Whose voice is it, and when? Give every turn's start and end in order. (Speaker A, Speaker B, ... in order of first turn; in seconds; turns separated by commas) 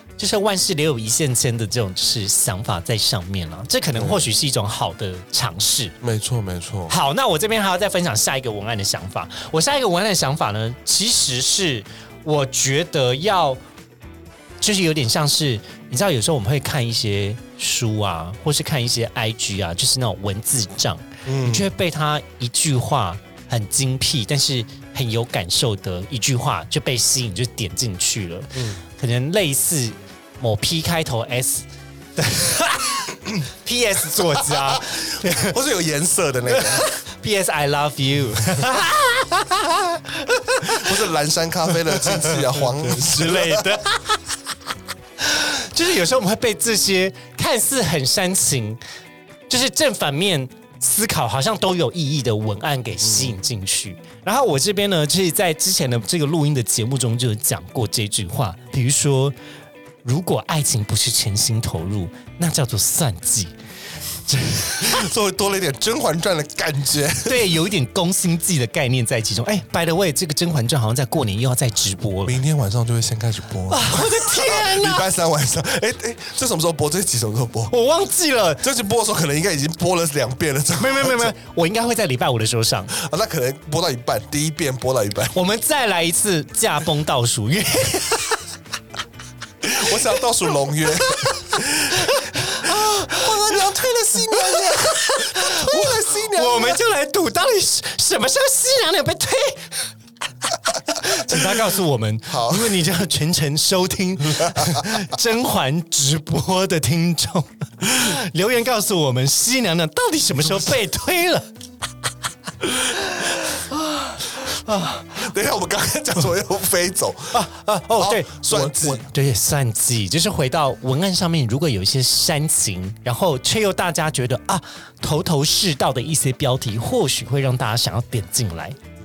Speaker A: 0.2-6.0, Speaker B: 4.0-4.3, Speaker B: 6.0-7.0, Speaker A: 6.9-13.6, Speaker A: 14.6-35.6, Speaker B: 21.3-21.7, Speaker B: 28.6-28.8, Speaker B: 34.4-36.9, Speaker A: 36.5-41.0, Speaker B: 40.6-43.8, Speaker A: 41.9-44.2, Speaker A: 45.2-48.8, Speaker A: 49.5-59.4, Speaker B: 53.0-53.4, Speaker A: 60.0-63.5, Speaker A: 64.3-65.0, Speaker B: 64.8-67.5, Speaker A: 67.2-72.4, Speaker B: 72.2-77.7, Speaker A: 73.7-75.1, Speaker A: 77.7-78.6, Speaker B: 78.6-81.3, Speaker A: 80.8-82.9, Speaker B: 82.9-85.4, Speaker A: 85.3-88.4, Speaker B: 89.6-96.8, Speaker A: 90.9-93.6, Speaker A: 94.3-99.8, Speaker A: 100.5-111.5, Speaker B: 101.3-101.6, Speaker B: 102.3-102.8, Speaker B: 104.3-105.0, Speaker A: 112.8-115.2, Speaker B: 115.1-117.4, Speaker A: 117.3-128.8, Speaker B: 118.0-119.1